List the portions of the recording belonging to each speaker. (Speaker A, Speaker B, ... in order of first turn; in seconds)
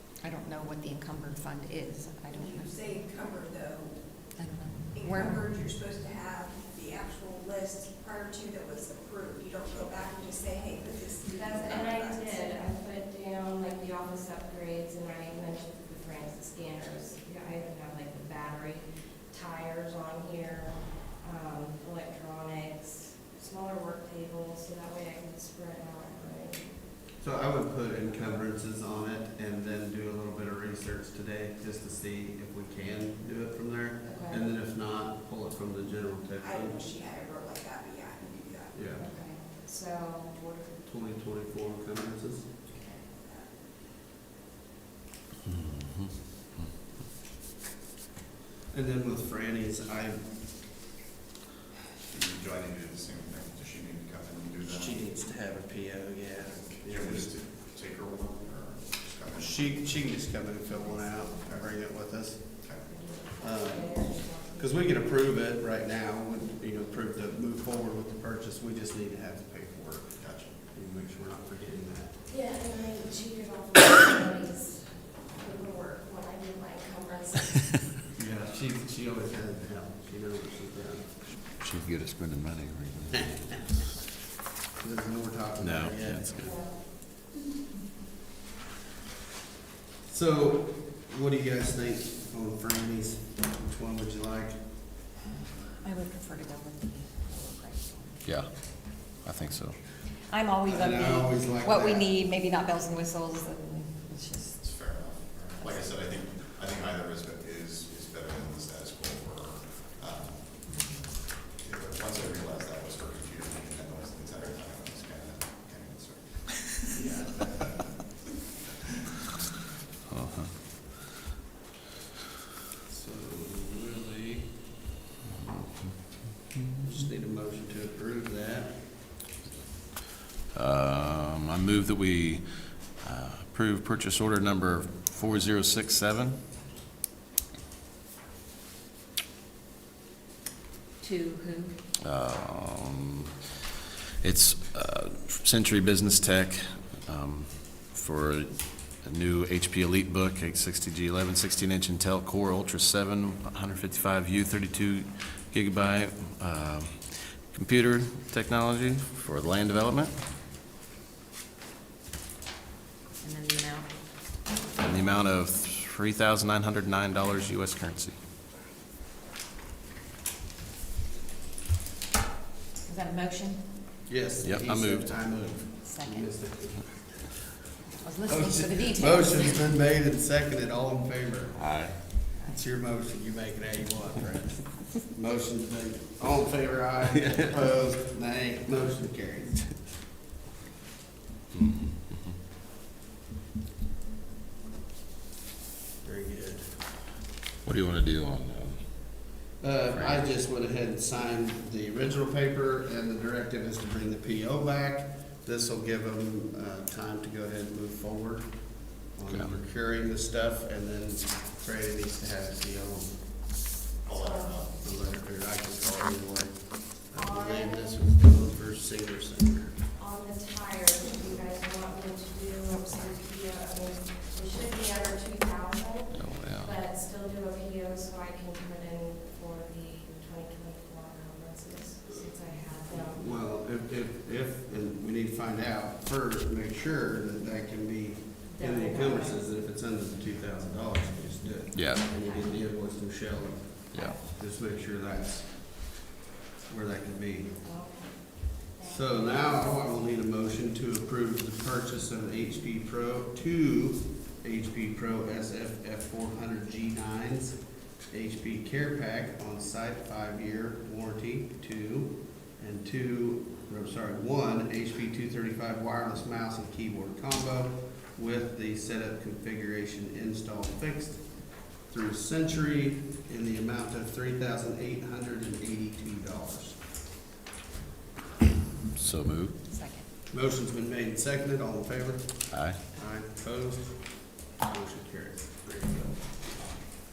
Speaker A: 0.2-2.4, 4.4-5.1, 95.8-98.1, 100.3-104.6, 163.4-163.9, 172.9-173.6
Speaker B: 2.3-12.5, 36.4-38.8, 42.9-43.5
Speaker C: 5.2-5.5, 11.2-26.7, 34.0-34.5, 38.9-40.8, 42.7-43.0, 60.7-61.5, 62.8-65.0, 72.3-77.8, 86.4-86.8, 141.0-141.8, 214.2-214.7, 217.2-218.0, 220.0-233.2, 238.5-239.4, 242.1-242.6, 244.0-244.2, 247.5-249.8, 279.8-280.1
Speaker D: 27.2-36.8, 38.7-39.1, 40.9-42.5, 48.7-50.6, 54.7-57.4, 59.4-62.9, 63.4-72.2, 78.2-81.3, 83.1-83.9, 84.8-86.5, 90.0-94.8, 100.6-102.1, 116.9-117.8, 122.9-124.5, 126.8-129.2, 174.1-177.6, 178.2-189.8, 196.0-196.8, 199.6-213.5, 214.8-219.8, 232.9-246.1, 246.7-247.6, 248.8-276.8, 280.3-286.7
Speaker E: 45.5-46.7, 81.6-83.8, 85.6-86.6, 98.2-99.8, 120.1-120.5, 125.4-126.8, 130.5-136.4, 142.0-143.3, 144.2-160.2, 164.8-168.2, 174.4-175.6, 181.6-182.0, 187.2-187.5, 191.5-192.3, 197.6-199.3, 199.9-200.3, 209.3-209.6, 226.1-226.8, 241.7-242.1, 243.9-244.2, 278.9-279.6, 282.5-282.8
Speaker F: 52.1-55.0, 56.5-60.0, 62.6-63.1, 70.2-70.6, 104.6-118.1, 214.1-214.8